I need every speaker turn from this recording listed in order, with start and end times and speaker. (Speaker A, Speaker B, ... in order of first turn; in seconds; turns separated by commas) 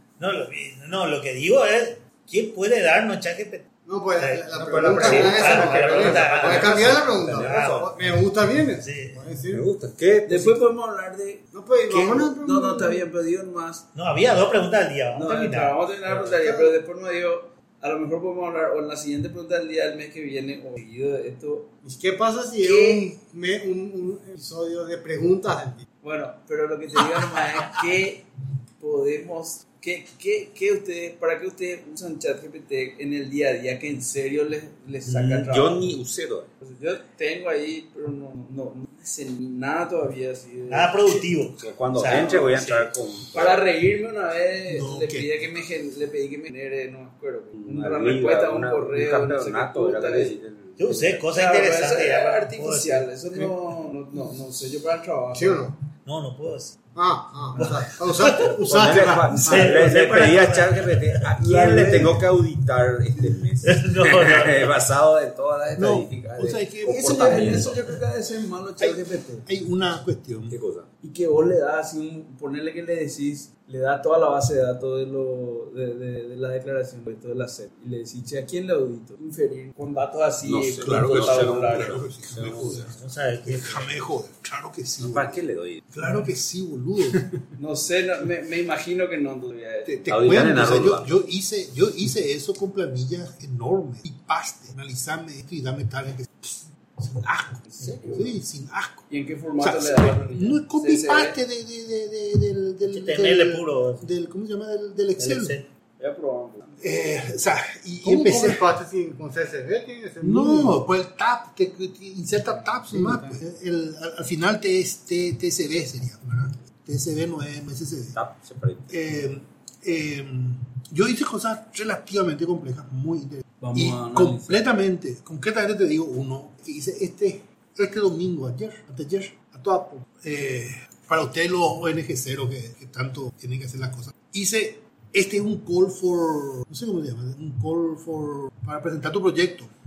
Speaker A: 0.2-3.7, Speaker B: 3.9-9.7, Speaker A: 4.2-7.8, Speaker C: 4.5-7.9, Speaker A: 8.8-9.2, Speaker C: 9.5-10.6, Speaker D: 10.3-13.9, Speaker B: 11.5-13.1, Speaker A: 13.9-15.8, Speaker D: 15.1-21.7, Speaker B: 16.4-16.7, Speaker B: 21.8-25.8, Speaker D: 22.6-23.1, Speaker D: 26.0-28.3, Speaker D: 28.8-35.9, Speaker C: 35.1-36.5, Speaker D: 36.6-41.3, Speaker A: 40.7-42.9, Speaker C: 41.6-43.6, Speaker D: 43.3-50.4, Speaker E: 44.7-45.3, Speaker C: 47.5-51.2, Speaker A: 50.8-53.6, Speaker D: 51.3-55.7, Speaker B: 55.3-55.8, Speaker A: 56.0-56.8, Speaker B: 57.0-59.8, Speaker A: 57.6-58.6, Speaker C: 58.6-67.8, Speaker A: 59.2-61.2, Speaker D: 61.4-62.2, Speaker A: 63.6-64.7, Speaker E: 65.8-67.7, Speaker D: 66.9-69.5, Speaker E: 68.8-70.6, Speaker C: 70.5-70.9, Speaker D: 71.0-82.0, Speaker C: 80.5-82.8, Speaker E: 80.8-85.4, Speaker A: 82.5-84.0, Speaker C: 85.0-85.8, Speaker E: 85.9-87.3, Speaker D: 87.6-90.4, Speaker E: 89.9-105.6, Speaker C: 90.1-91.1, Speaker D: 97.7-98.4, Speaker D: 99.1-101.4, Speaker A: 102.9-104.1, Speaker A: 105.2-105.7, Speaker D: 106.0-106.7, Speaker E: 106.8-108.6, Speaker B: 108.0-110.8, Speaker E: 110.2-118.2, Speaker B: 112.9-113.4, Speaker C: 118.1-118.9, Speaker E: 118.9-139.7, Speaker D: 123.6-124.6, Speaker B: 129.7-130.0